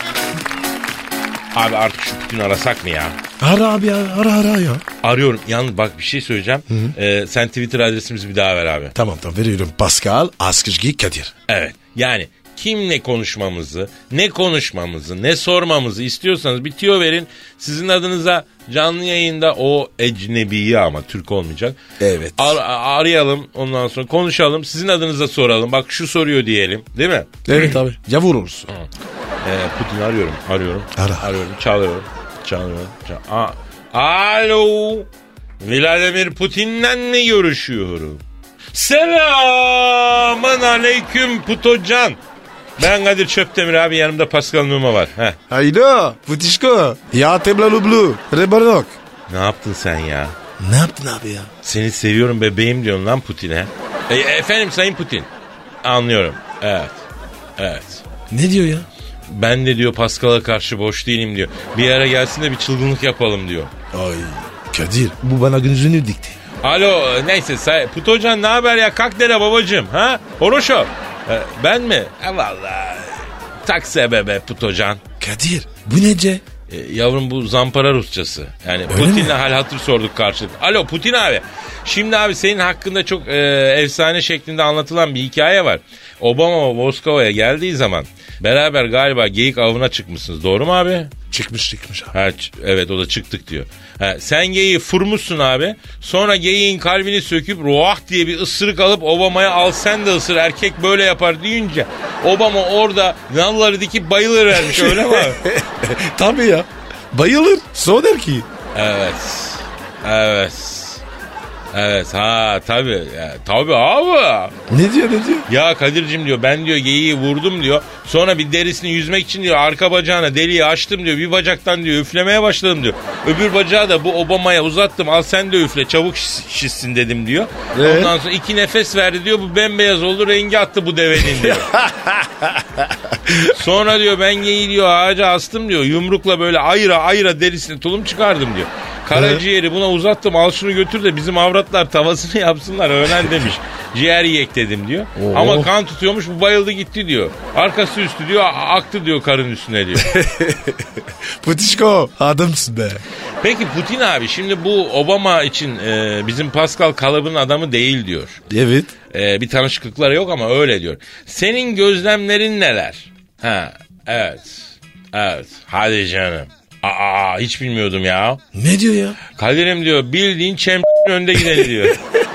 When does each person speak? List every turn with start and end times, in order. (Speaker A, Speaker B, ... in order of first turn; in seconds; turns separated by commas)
Speaker A: 1.5-3.2, Speaker B: 3.4-4.8, Speaker A: 5.0-8.9, Speaker B: 6.7-7.0, Speaker B: 8.9-11.3, Speaker A: 11.5-21.8, Speaker B: 22.0-22.6, Speaker A: 22.4-27.7, Speaker B: 27.4-28.7, Speaker A: 29.4-35.1, Speaker B: 31.0-31.3, Speaker A: 35.6-38.2, Speaker A: 38.7-42.2, Speaker A: 42.8-45.4, Speaker B: 45.5-48.9, Speaker A: 49.3-50.4, Speaker B: 50.6-51.5, Speaker A: 51.6-55.3, Speaker A: 55.8-57.0, Speaker A: 57.6-58.0, Speaker B: 58.3-58.9, Speaker A: 59.3-63.7, Speaker B: 63.9-66.4, Speaker A: 66.6-75.0, Speaker B: 75.2-76.4, Speaker A: 76.7-91.1, Speaker B: 78.9-79.4, Speaker B: 91.3-92.2, Speaker A: 92.1-105.4, Speaker B: 104.5-108.5, Speaker A: 108.7-111.0, Speaker A: 111.7-114.5, Speaker B: 114.7-115.5, Speaker A: 115.5-131.7, Speaker B: 127.7-128.2, Speaker B: 131.2-133.5, Speaker A: 133.4-150.1, Speaker B: 139.1-139.4, Speaker B: 145.2-145.7, Speaker B: 150.0-153.0, Speaker A: 153.4-158.4, Speaker B: 158.5-158.9, Speaker A: 159.1-168.4, Speaker B: 168.5-169.2, Speaker A: 169.3-172.0, Speaker B: 171.4-172.2